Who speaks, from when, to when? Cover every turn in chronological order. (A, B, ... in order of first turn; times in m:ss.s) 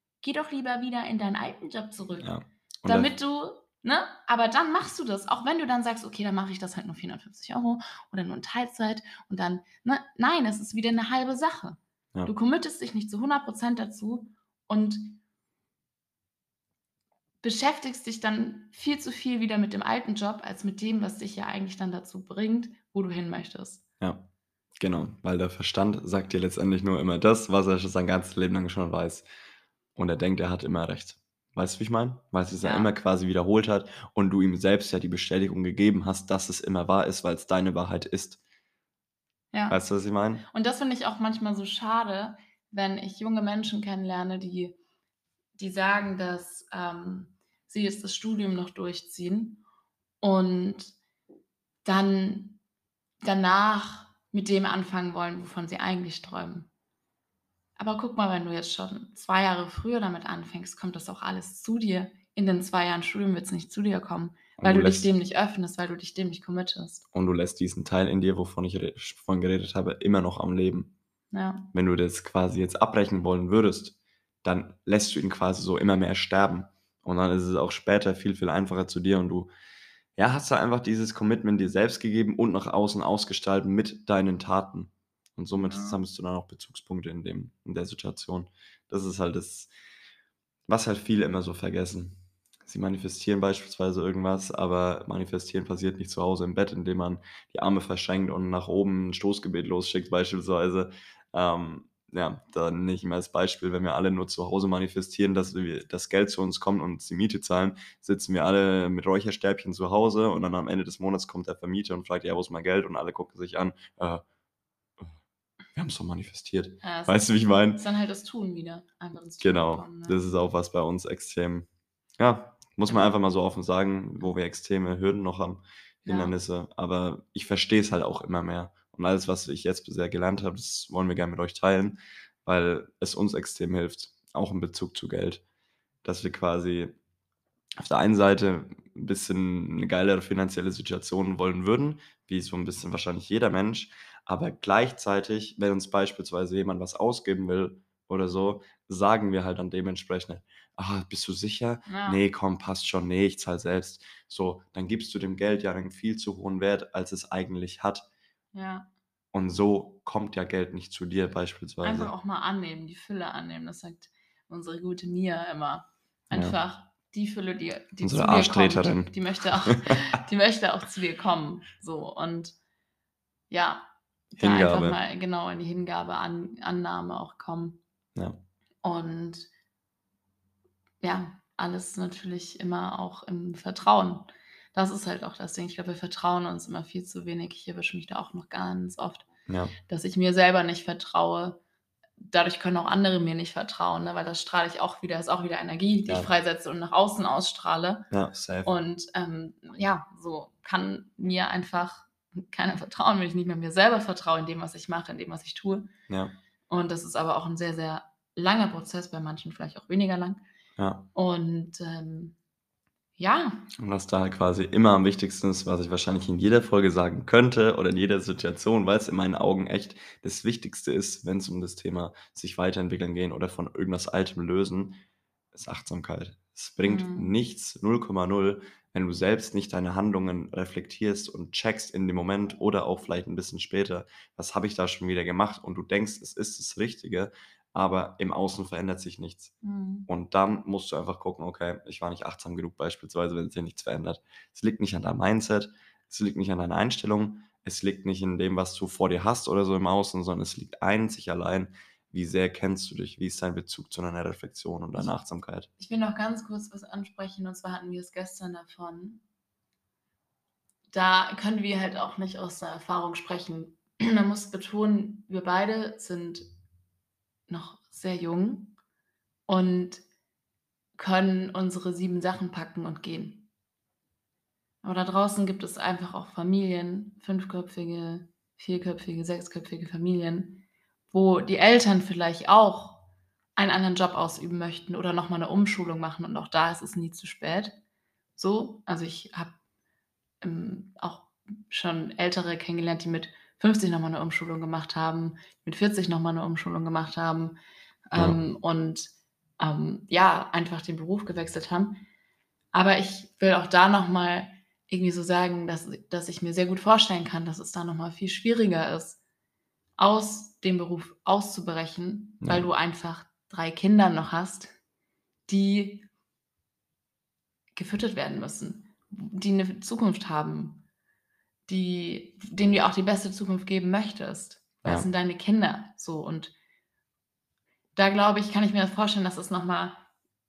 0:00.2-0:02.3 A
0:02.2-0:03.1 B
0:02.8-0:15.2 A
0:17.4-0:23.8 A
0:24.0-0:24.3 B
0:24.8-0:29.3 B
0:30.0-0:38.4 B
0:32.6-0:32.9 A
0:39.5-0:39.8 A
0:39.7-0:40.4 B
0:40.5-0:44.8 A
0:45.6-0:49.6 A
0:50.2-0:51.0 A
0:51.8-0:52.6 A
0:53.2-0:56.7 A
0:57.8-1:07.0 A
1:04.6-1:05.1 B
1:07.1-1:10.9 B
1:11.3-1:11.7 A
1:11.7-1:19.5 B
1:20.2-1:29.7 B
1:25.6-1:26.0 A
1:30.7-1:54.2 B
1:55.8-1:57.8 B
1:56.8-1:57.2 A
1:57.7-2:00.2 A
1:59.4-2:01.7 B
2:02.2-2:15.4 B
2:06.0-2:06.4 A
2:16.0-2:17.0 B
2:17.8-2:38.1 B
2:31.9-2:32.2 A
2:38.5-2:38.9 A
2:39.3-2:42.1 B
2:41.8-2:52.6 A
2:46.3-2:46.6 B
2:48.0-2:49.2 B
2:53.5-2:57.8 A
2:54.4-2:55.0 B
2:58.2-2:58.4 B
2:58.8-2:59.5 A
3:01.0-3:09.3 A
3:09.5-3:09.8 B
3:09.9-3:11.6 A
3:12.2-3:18.1 A
3:18.1-3:18.7 B
3:18.6-3:25.9 A
3:26.1-3:26.4 B
3:26.7-3:30.4 A
3:30.8-3:31.1 B
3:31.2-3:32.4 A
3:33.2-3:33.7 A
3:33.8-3:45.0 B
3:45.5-3:59.5 B
3:46.8-3:47.3 A
3:59.6-4:00.1 A
4:00.1-4:15.7 B
4:15.8-4:19.2 A
4:20.9-4:26.5 A
4:27.5-4:28.8 A
4:29.5-4:30.0 A
4:31.0-4:33.5 A
4:34.8-4:43.0 A
4:43.6-4:47.8 A
4:48.4-4:49.6 A
4:50.4-4:57.6 A
4:58.1-5:02.0 A
5:02.7-5:09.2 A
5:10.0-5:14.8 A
5:12.4-5:12.7 B
5:15.5-5:16.1 A
5:17.8-5:20.8 A
5:21.7-5:26.5 A
5:28.0-5:30.0 A